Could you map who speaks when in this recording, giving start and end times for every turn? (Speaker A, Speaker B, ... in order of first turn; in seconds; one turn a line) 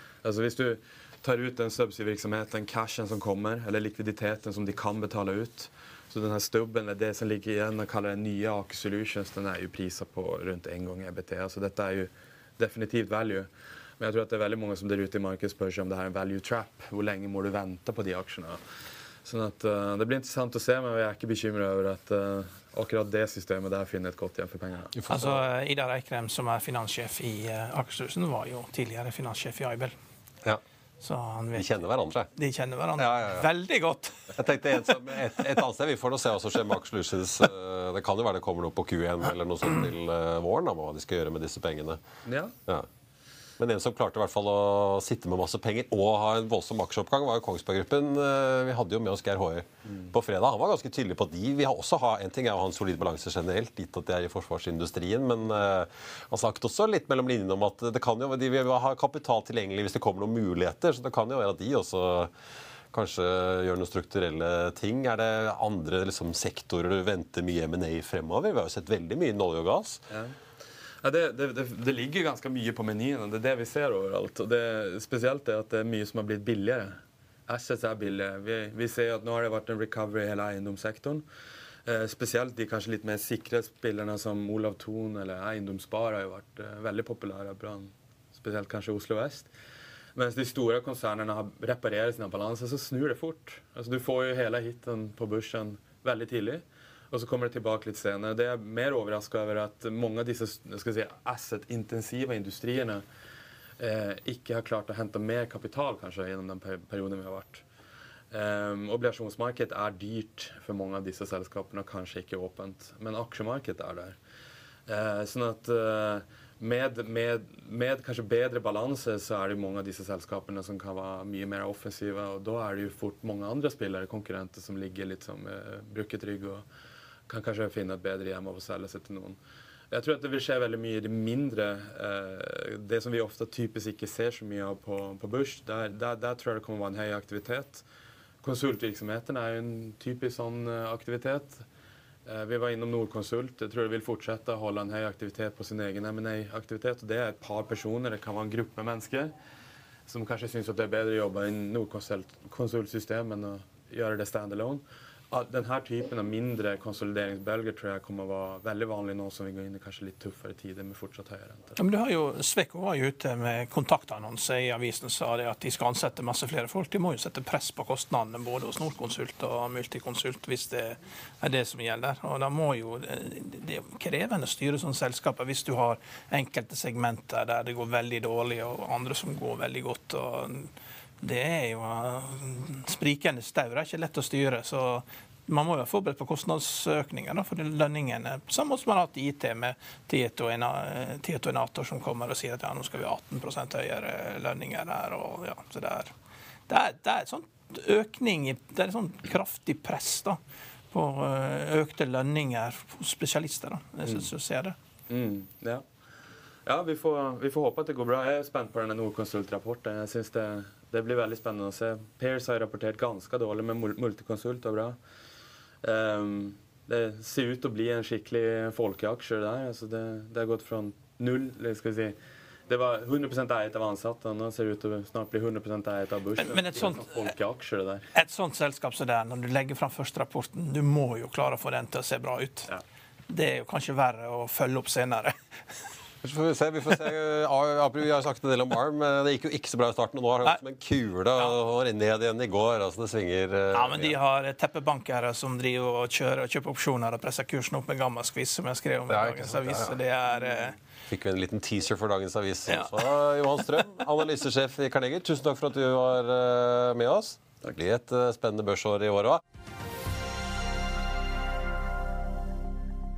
Speaker A: 0.2-18.6
Speaker A: 19.2-24.9
Speaker B: 24.9-25.4
Speaker C: 25.1-29.9
Speaker C: 31.0-31.7
Speaker B: 31.5-32.3
Speaker C: 32.4-34.4
Speaker B: 33.0-33.5
Speaker B: 34.3-42.0
Speaker A: 42.3-42.5
Speaker B: 43.6-62.3
Speaker B: 62.9-70.0
Speaker A: 70.1-70.3
Speaker A: 71.0-81.2
Speaker A: 81.9-89.5
Speaker A: 90.2-103.0
Speaker A: 103.8-107.7
Speaker A: 108.3-114.2
Speaker A: 114.9-126.7
Speaker A: 127.3-129.4
Speaker A: 129.9-137.8
Speaker A: 138.4-141.7
Speaker A: 142.3-149.3
Speaker A: 150.1-161.8
Speaker C: 161.8-180.7
Speaker C: 181.2-196.1
Speaker C: 196.7-200.4
Speaker C: 200.9-204.8
Speaker A: 205.1-205.8
Speaker A: 206.7-215.0
Speaker A: 215.8-222.2
Speaker A: 222.7-228.1
Speaker C: 226.4-227.2
Speaker C: 228.2-232.7
Speaker C: 233.3-235.3
Speaker B: 236.2-244.2
Speaker C: 243.7-250.8
Speaker B: 249.1-250.0
Speaker B: 251.1-259.4
Speaker C: 252.7-253.2